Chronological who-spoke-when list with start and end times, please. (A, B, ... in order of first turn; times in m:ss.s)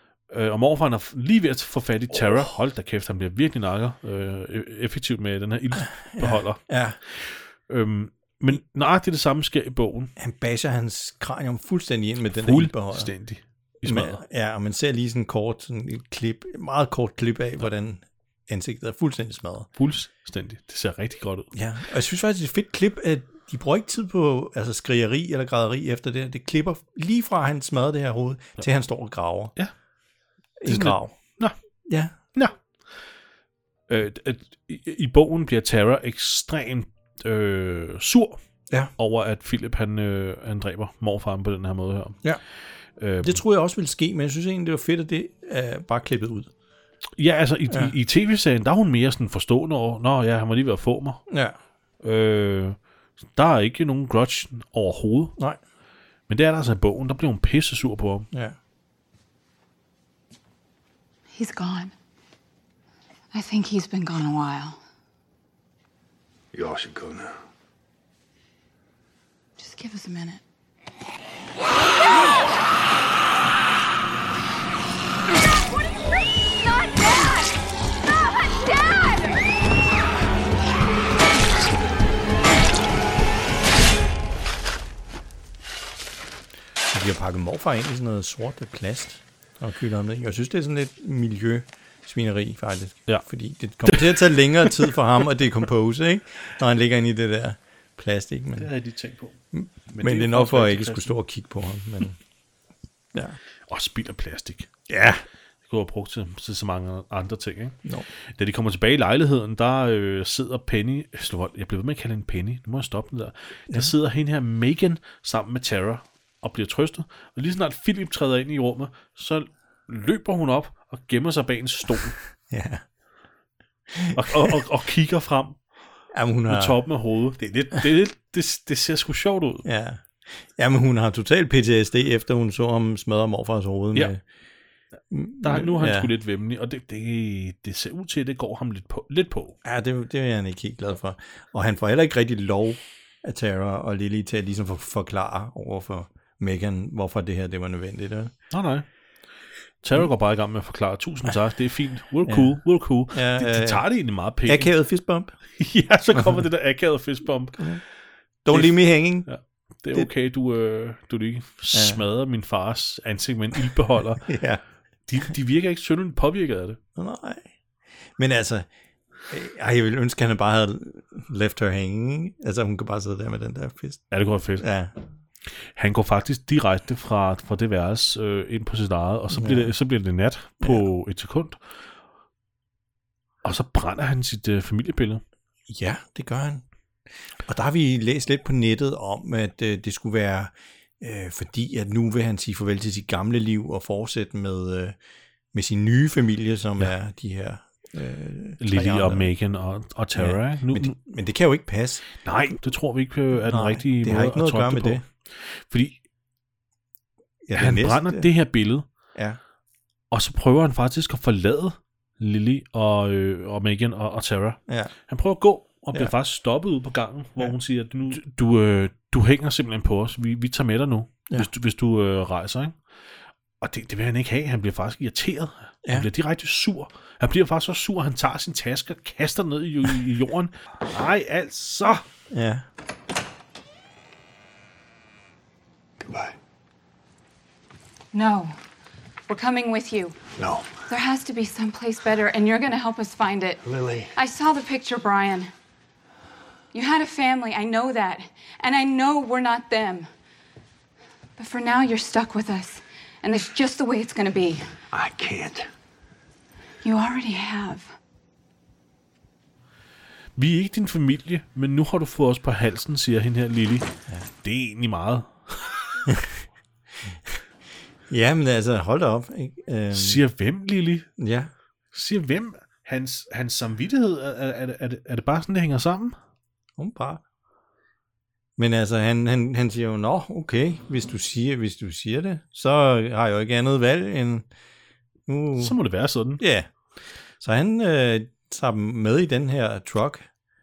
0:00.3-0:10.1 A
0:02.1-0:02.4 B
0:05.8-0:07.0 B
0:10.2-0:13.1 B
0:12.4-0:14.2 A
0:13.8-0:19.7 B
0:19.8-0:21.5 A
0:21.5-0:29.5 B
0:30.6-0:31.1 B
0:30.6-0:31.5 A
0:31.9-0:32.1 B
0:33.9-0:38.4 A
0:39.0-0:42.2 A
0:43.0-0:43.4 A
0:43.2-0:46.5 B
0:47.2-0:51.2 A
0:51.3-0:51.6 B
0:52.0-0:52.8 A
0:53.3-0:55.3 A
0:56.3-0:58.3 A
0:58.3-0:58.6 B
1:01.3-1:01.9 C
1:03.3-1:04.8 C
1:06.5-1:07.4 D
1:09.6-1:10.4 C
1:18.7-1:19.2 C
1:26.9-1:38.7 B
1:33.8-1:34.1 A
1:38.6-1:39.4 A
1:39.5-1:42.2 B
1:39.9-1:41.2 A
1:43.7-1:44.7 A
1:44.9-1:45.2 B
1:45.6-1:47.8 A
1:48.3-2:02.2 A
2:02.5-2:02.8 B
2:03.9-2:04.6 B
2:04.1-2:05.6 A
2:06.1-2:06.8 B
2:06.5-2:09.6 A
2:09.6-2:14.2 B
2:15.1-2:16.1 B
2:15.4-2:19.6 A
2:19.6-2:28.3 B
2:28.5-2:28.8 A
2:29.8-2:34.7 A
2:32.2-2:33.9 B
2:34.4-2:35.4 B
2:35.6-2:37.7 A
2:37.6-2:37.8 B
2:38.4-2:39.3 B
2:38.5-2:44.3 A
2:41.7-2:42.0 B
2:44.2-2:44.6 B
2:45.1-2:46.8 A
2:47.0-2:47.5 B
2:48.2-2:48.7 B
2:49.3-2:54.9 B
2:54.1-2:54.6 A
2:55.7-3:01.6 A
2:59.3-2:59.7 B
3:03.4-3:05.2 A
3:05.7-3:06.6 B
3:07.4-3:15.0 B
3:15.5-3:19.3 B
3:18.6-3:21.0 A
3:20.1-3:22.0 B
3:22.2-3:26.0 A
3:23.3-3:25.0 B
3:27.4-3:28.3 B
3:27.5-3:28.8 A
3:29.1-3:29.4 B
3:30.1-3:42.8 A
3:34.7-3:34.9 B
3:43.6-3:52.0 A
3:52.3-3:52.6 B
3:56.0-3:56.4 D
3:58.1-3:58.6 C
3:59.3-4:00.2 C
4:00.4-4:00.7 D
4:00.9-4:03.6 C
4:03.6-4:04.1 D
4:04.2-4:05.5 C
4:06.7-4:10.1 C
4:11.4-4:14.7 C
4:14.9-4:15.7 D
4:16.8-4:17.9 C
4:20.4-4:23.9 A
4:24.4-4:25.9 A
4:26.0-4:26.4 B
4:28.1-4:30.2 B
4:29.9-4:31.1 A
4:31.2-4:31.5 B
4:31.9-4:36.2 A
4:36.8-4:37.2 B
4:38.6-4:44.5 B
4:45.3-4:45.8 B
4:45.6-4:46.4 A
4:46.4-4:46.7 B
4:47.4-4:50.3 B